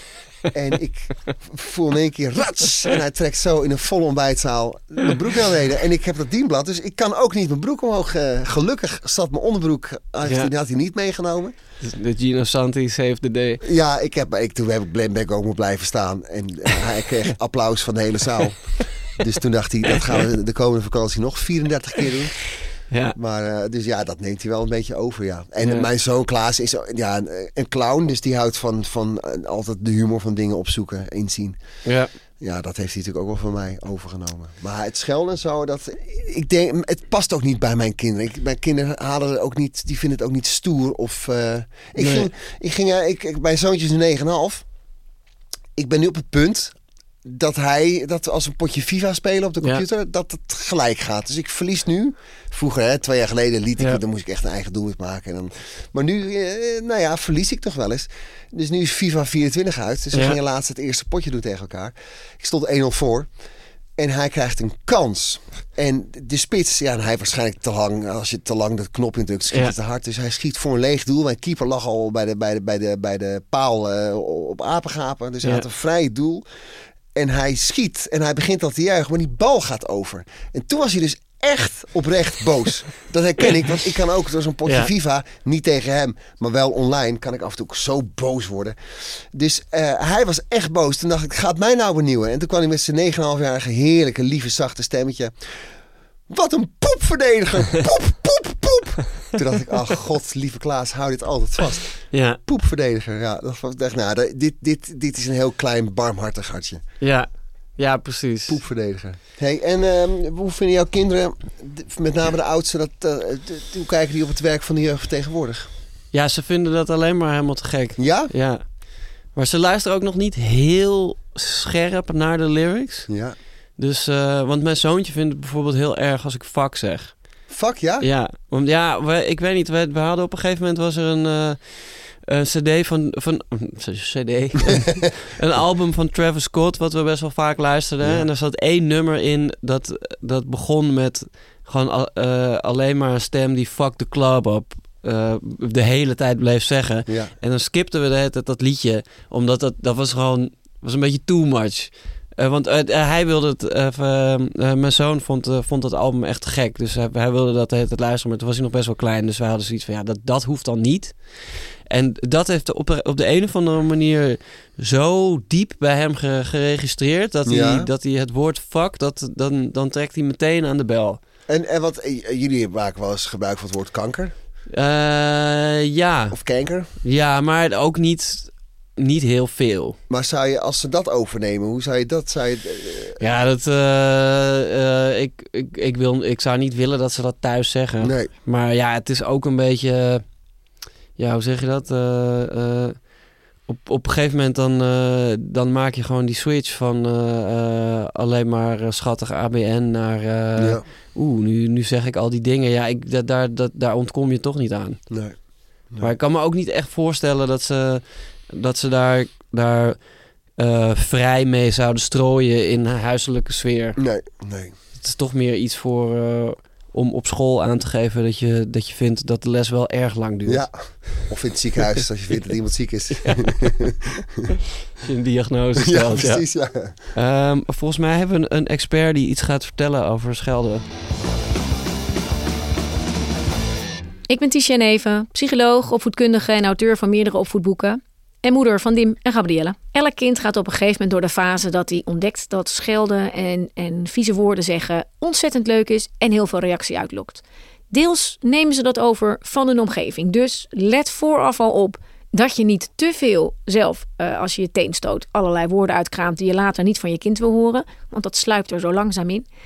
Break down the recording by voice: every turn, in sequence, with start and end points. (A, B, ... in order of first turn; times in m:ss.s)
0:00.5-0:11.5 A
0:10.2-0:10.5 B
0:11.8-0:13.6 B
0:13.6-0:18.7 A
0:19.2-0:22.4 A
0:22.9-0:23.2 B
0:23.1-0:31.6 A
0:25.6-0:25.9 B
0:31.8-0:32.1 B
0:32.4-0:44.6 A
0:42.0-0:42.3 B
0:45.8-1:03.3 A
1:00.1-1:00.4 B
1:04.0-1:16.4 A
1:17.1-1:35.6 A
1:36.3-1:41.9 A
1:42.1-1:42.4 B
1:42.4-1:46.8 A
1:47.0-1:48.6 B
1:48.5-1:55.7 A
1:56.1-1:58.6 B
1:58.0-1:58.3 A
1:59.3-2:03.1 B
2:03.1-2:03.4 A
2:03.8-2:07.1 B
2:07.5-2:08.1 A
2:08.0-2:51.2 B
2:18.0-2:18.3 A
2:27.1-2:27.3 A
2:47.4-2:47.9 A
2:51.5-2:54.3 A
2:54.7-2:56.4 B
2:56.3-2:56.9 A
2:57.0-3:00.0 B
3:00.1-3:03.2 A
3:03.2-3:10.2 B
3:08.0-3:08.3 A
3:11.2-3:13.0 B
3:13.7-3:25.0 B
3:20.6-3:20.8 A
3:25.1-3:25.3 A
3:26.0-3:30.0 B
3:30.6-3:34.0 B
3:34.0-3:34.8 A
3:35.0-3:41.2 B
3:40.4-3:44.6 A
3:43.2-3:43.6 B
3:45.0-3:46.4 B
3:45.8-3:46.9 A
3:47.1-3:50.8 B
3:54.3-4:19.5 C